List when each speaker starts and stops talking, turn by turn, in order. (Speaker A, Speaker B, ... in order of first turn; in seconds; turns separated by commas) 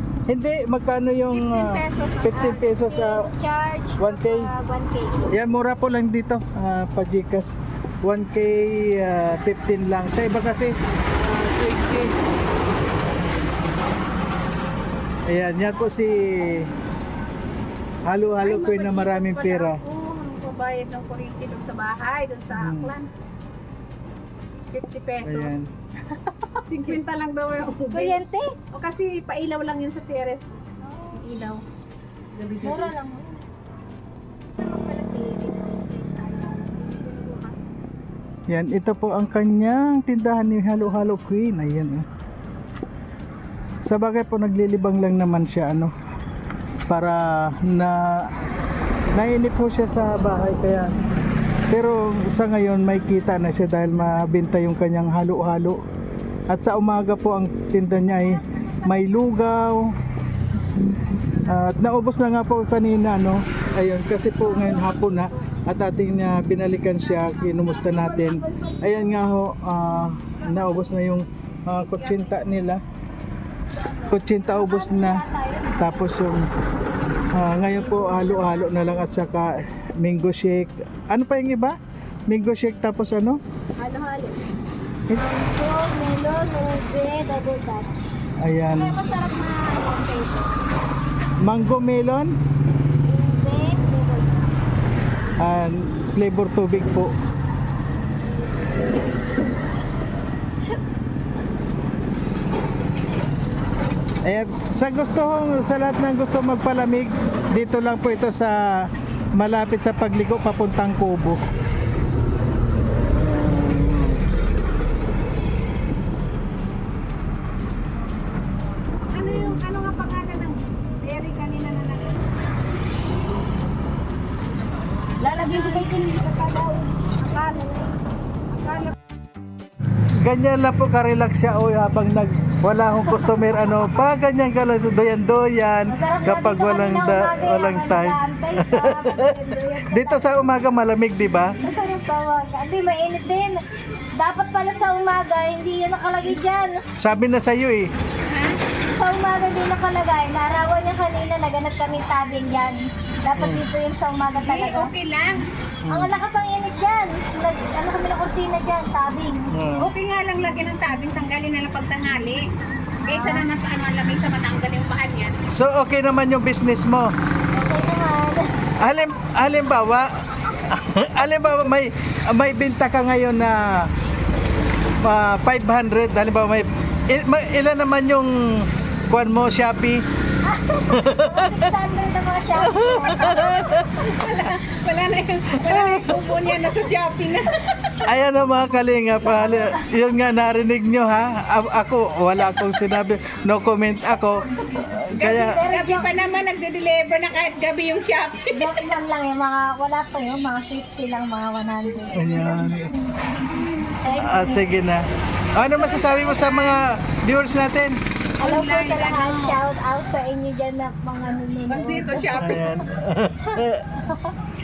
Speaker A: 0.3-3.3, Speaker B: 1.2-2.4, Speaker C: 2.2-5.3, Speaker A: 4.0-4.5, Speaker A: 5.3-12.1, Speaker A: 15.3-16.7, Speaker A: 18.1-19.8, Speaker B: 18.4-23.1, Speaker A: 22.5-22.9, Speaker B: 24.7-25.5, Speaker A: 25.2-25.7, Speaker B: 26.6-28.2, Speaker C: 27.9-28.5, Speaker B: 28.7-30.5, Speaker C: 30.8-31.3, Speaker B: 31.2-31.6, Speaker B: 32.4-32.9, Speaker C: 32.6-33.4, Speaker C: 34.6-37.9, Speaker A: 38.5-42.0, Speaker A: 43.8-45.9, Speaker A: 46.9-48.4, Speaker A: 49.1-50.9, Speaker A: 51.7-55.8, Speaker A: 56.5-59.9, Speaker A: 61.4-72.8, Speaker C: 64.4-65.3, Speaker C: 67.6-68.9, Speaker B: 71.9-72.3, Speaker C: 73.9-76.0, Speaker A: 74.1-75.2, Speaker A: 75.8-76.5, Speaker A: 77.3-81.8, Speaker C: 77.7-79.1, Speaker A: 82.3-83.4, Speaker C: 83.8-84.4, Speaker C: 85.1-88.0, Speaker A: 88.4-89.0, Speaker C: 88.8-90.5, Speaker A: 91.4-92.3, Speaker C: 93.0-94.5, Speaker A: 95.4-97.1, Speaker A: 104.2-111.4, Speaker A: 113.0-114.2, Speaker B: 119.1-122.3, Speaker C: 125.2-126.9, Speaker B: 127.2-128.0, Speaker B: 128.5-128.9, Speaker A: 130.2-139.3, Speaker C: 135.9-140.6, Speaker A: 139.9-141.5, Speaker C: 141.6-143.6, Speaker C: 144.2-146.8, Speaker A: 147.0-147.9, Speaker B: 148.3-148.6, Speaker C: 148.9-154.9, Speaker A: 153.4-153.6, Speaker B: 154.4-155.5, Speaker A: 155.8-156.1, Speaker C: 155.9-159.4, Speaker A: 159.5-159.9, Speaker B: 159.8-162.4, Speaker C: 163.0-163.4, Speaker B: 163.0-165.4, Speaker A: 165.5-167.1, Speaker C: 167.5-168.4, Speaker A: 168.8-173.9, Speaker A: 175.0-180.0, Speaker C: 180.4-183.9, Speaker A: 180.9-181.7, Speaker A: 182.6-183.9, Speaker B: 183.9-187.6, Speaker A: 185.6-186.2, Speaker A: 188.0-195.6, Speaker C: 189.2-189.9, Speaker B: 195.2-198.9, Speaker C: 195.3-196.1, Speaker C: 198.5-203.0, Speaker A: 202.1-202.9, Speaker C: 204.0-204.6, Speaker A: 204.2-205.0, Speaker A: 205.6-208.0, Speaker B: 205.9-206.6, Speaker C: 208.4-212.7, Speaker B: 208.4-209.6, Speaker B: 211.7-212.7, Speaker A: 212.4-214.0